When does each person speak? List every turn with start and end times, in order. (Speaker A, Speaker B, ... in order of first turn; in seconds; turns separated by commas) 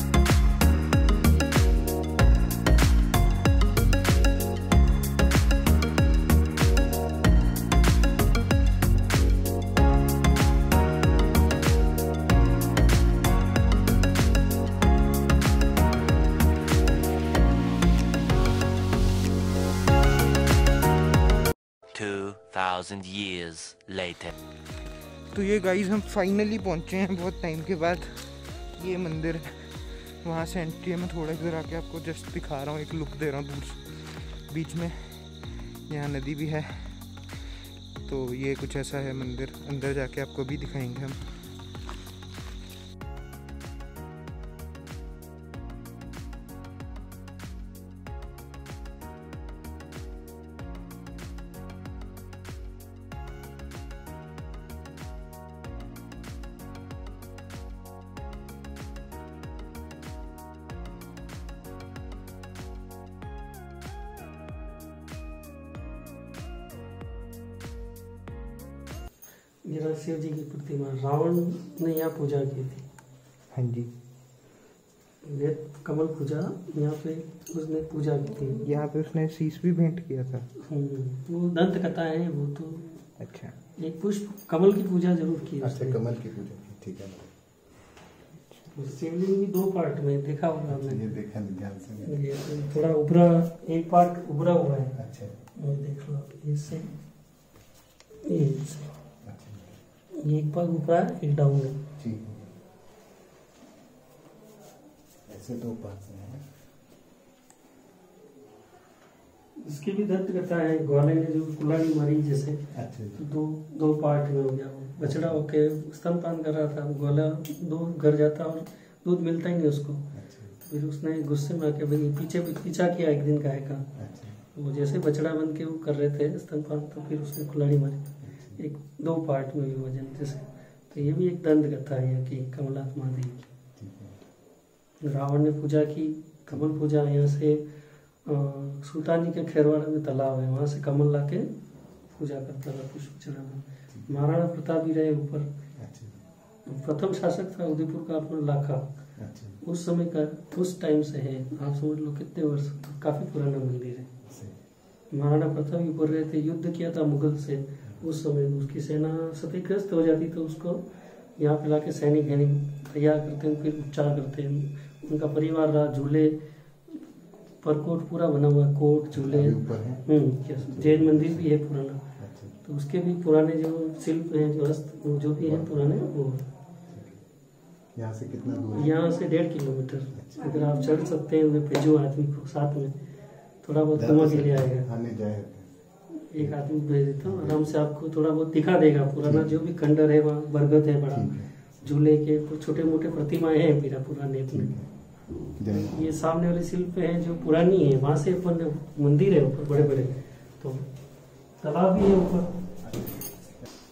Speaker A: 21.9-24.3, Speaker B: 25.3-37.0, Speaker B: 38.0-41.2, Speaker C: 69.7-72.8, Speaker B: 73.5-73.9, Speaker C: 75.2-78.6, Speaker B: 78.6-80.5, Speaker C: 80.6-83.2, Speaker B: 83.2-83.5, Speaker C: 83.8-86.0, Speaker D: 85.6-87.3, Speaker C: 88.7-91.2, Speaker D: 90.7-92.2, Speaker C: 92.0-97.0, Speaker D: 94.9-95.4, Speaker C: 98.2-99.0, Speaker D: 99.2-99.8, Speaker C: 100.2-101.8, Speaker D: 102.0-102.5, Speaker D: 105.2-106.4, Speaker C: 109.6-133.5, Speaker D: 112.7-113.2, Speaker D: 115.0-115.4, Speaker D: 120.1-120.6, Speaker D: 124.0-124.4, Speaker D: 128.2-128.6, Speaker D: 133.8-134.2, Speaker C: 135.0-145.5, Speaker D: 143.9-144.2, Speaker D: 145.8-146.2, Speaker C: 146.7-154.2, Speaker D: 149.2-149.6, Speaker D: 154.2-154.6, Speaker C: 155.1-167.0, Speaker C: 167.6-176.5, Speaker D: 169.1-172.6, Speaker D: 175.4-175.8, Speaker D: 176.9-177.2, Speaker D: 177.9-178.9, Speaker C: 178.7-183.0, Speaker D: 180.1-180.6, Speaker C: 183.6-184.9, Speaker D: 183.9-185.7, Speaker C: 186.2-194.8, Speaker D: 186.3-187.7, Speaker D: 189.2-189.6, Speaker D: 191.1-191.9, Speaker D: 194.5-196.0, Speaker C: 195.7-202.6, Speaker D: 202.8-203.5